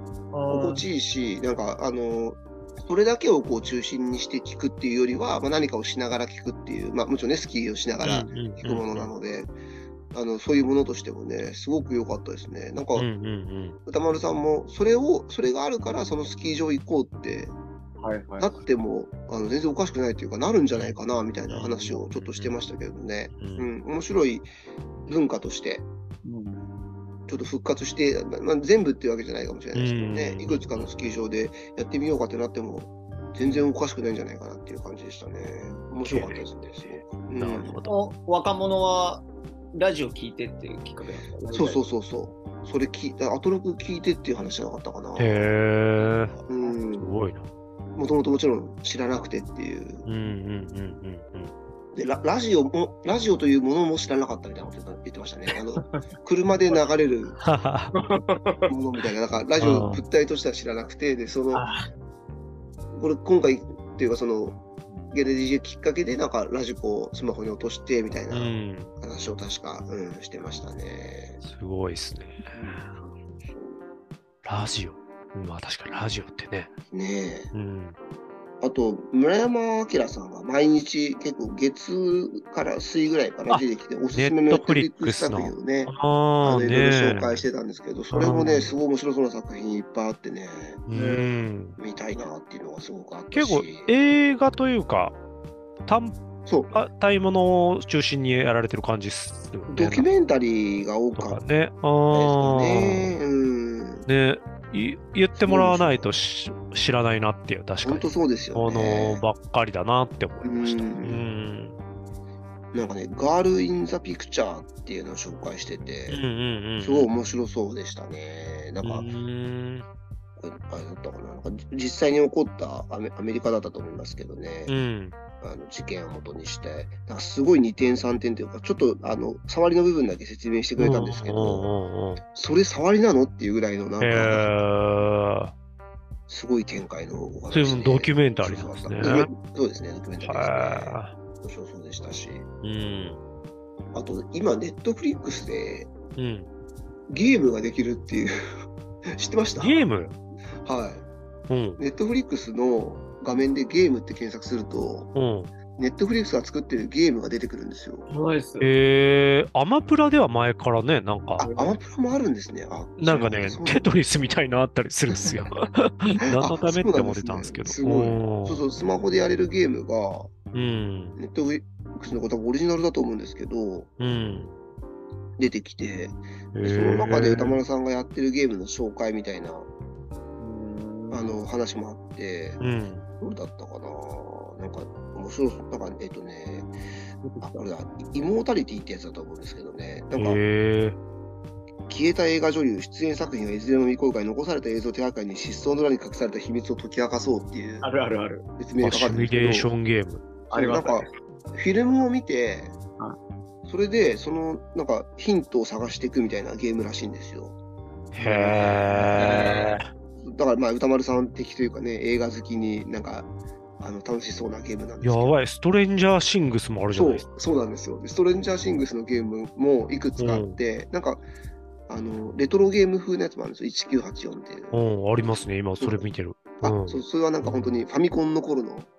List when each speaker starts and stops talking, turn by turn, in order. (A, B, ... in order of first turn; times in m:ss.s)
0:00.3-0:00.8 A
0:00.5-0:09.5 B
0:08.0-0:09.1 C
0:10.1-0:13.1 B
0:13.0-0:13.8 C
0:13.8-0:17.5 B
0:18.0-0:18.5 A
0:18.4-0:24.5 B
0:21.5-0:22.6 C
0:23.4-0:23.7 C
0:25.1-0:25.8 B
0:26.2-0:26.6 A
0:27.3-0:37.8 B
0:29.7-0:31.1 C
0:36.1-0:36.4 C
0:37.4-0:37.9 C
0:37.8-0:41.8 A
0:41.5-0:45.5 B
0:45.2-0:46.3 C
0:46.5-0:47.1 B
0:46.9-0:47.5 C
0:48.0-0:50.0 B
0:50.0-0:51.5 C
0:51.9-0:57.4 B
0:57.4-0:58.0 C
0:57.9-0:58.7 A
0:58.7-1:01.6 B
0:59.6-1:00.0 C
1:01.5-1:01.8 A
1:02.9-1:04.6 B
1:05.1-1:11.4 B
1:08.3-1:08.9 C
1:11.4-1:13.1 C
1:12.5-1:12.9 A
1:14.4-1:16.7 C
1:16.9-1:17.5 B
1:17.5-1:17.9 C
1:18.6-1:30.9 B
1:23.5-1:27.4 C
1:28.1-1:28.7 C
1:30.9-1:31.8 C
1:30.9-1:31.2 A
1:31.8-1:33.9 B
1:33.3-1:35.2 C
1:35.8-1:36.2 C
1:36.4-1:36.7 B
1:36.7-1:40.1 C
1:39.7-1:41.4 B
1:41.2-1:43.2 C
1:42.1-1:44.1 B
1:44.1-1:51.8 C
1:45.4-1:46.1 B
1:47.8-1:49.2 B
1:50.4-1:51.2 B
1:52.7-1:56.2 B
1:56.1-1:57.1 C
1:56.8-1:59.1 B
1:58.8-1:59.8 C
2:00.4-2:04.8 B
2:04.7-2:05.2 C
2:05.4-2:11.7 B
2:10.8-2:12.2 C
2:12.3-2:14.5 B
2:14.0-2:15.5 C
2:16.3-2:22.5 B
2:17.5-2:19.3 C
2:20.2-2:21.1 C
2:22.6-2:23.2 C
2:23.9-2:25.9 B
2:26.2-2:26.5 C
2:27.1-2:28.3 B
2:29.2-2:29.8 B
2:29.6-2:30.1 C
2:30.6-2:31.0 B
2:31.5-2:31.8 C
2:31.8-2:35.1 B
2:35.1-2:35.5 C
2:35.7-2:38.1 B
2:38.1-2:38.7 A
2:38.6-2:41.5 C
2:41.4-2:43.9 B
2:41.4-2:41.8 A
2:43.0-2:48.6 C
2:46.3-2:50.3 B
2:50.5-2:51.2 C
2:51.2-2:53.9 B
2:54.0-2:54.5 C
2:55.4-2:59.7 B
2:56.5-2:57.6 C
3:00.4-3:01.4 A
3:01.1-3:02.6 B
3:02.6-3:03.1 C
3:03.2-3:06.7 B
3:07.4-3:10.4 B
3:10.2-3:11.0 C
3:11.9-3:17.9 B
3:17.8-3:18.4 A
3:18.6-3:19.7 B
3:18.8-3:20.2 C
3:20.5-3:21.1 A
3:20.5-3:22.8 B
3:23.7-3:27.6 B
3:28.1-3:29.9 C
3:28.2-3:33.3 B
3:29.1-3:29.8 A
3:33.8-3:35.3 B
3:35.0-3:37.3 C
3:36.9-3:41.2 B
3:40.2-3:40.6 C
3:41.9-3:44.8 B
3:44.7-3:47.0 C
3:45.8-3:46.0 B
3:46.6-3:48.9 B